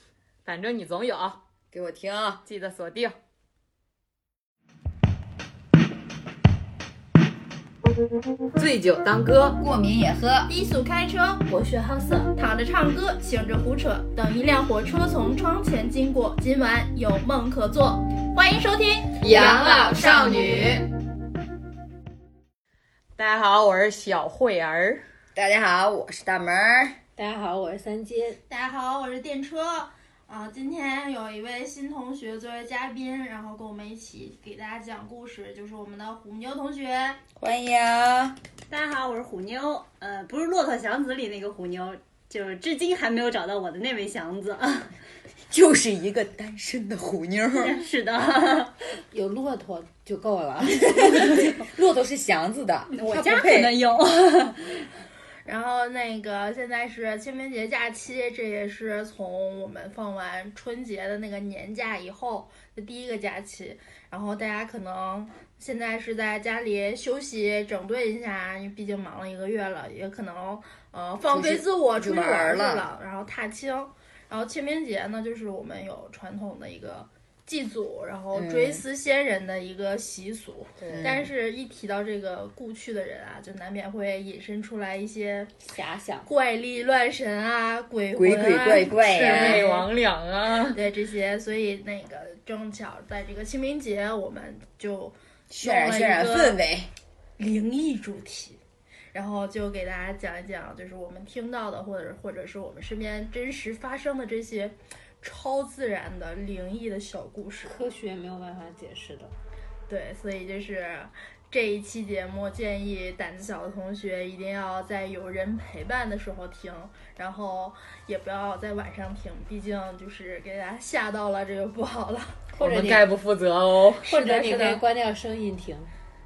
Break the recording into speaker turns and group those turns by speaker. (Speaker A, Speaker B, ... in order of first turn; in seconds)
Speaker A: 0.5-1.4, 2.5-3.2, 8.6-9.6, 19.2-20.8, 23.2-25.0, 80.8-81.1, 89.1-90.8, 122.6-124.8
Speaker B: 1.7-2.4, 9.6-10.5, 19.2-20.8, 25.4-27.0, 37.4-38.4, 45.5-47.8, 50.8-53.9, 71.3-72.9, 78.3-78.8, 80.9-81.3, 88.1-89.7, 95.5-96.9
Speaker C: 10.5-20.6, 28.5-37.2, 55.5-85.6, 86.2-89.9, 90.7-96.6, 97.4-98.6, 99.1-107.8, 109.9-122.4, 124.1-124.8
Speaker D: 27.2-28.4, 49.1-51.3, 85.7-86.3, 107.7-109.3, 122.6-123.1, 124.0-125.9
Speaker E: 38.7-44.9, 47.5-48.7, 50.9-51.5, 52.9-54.9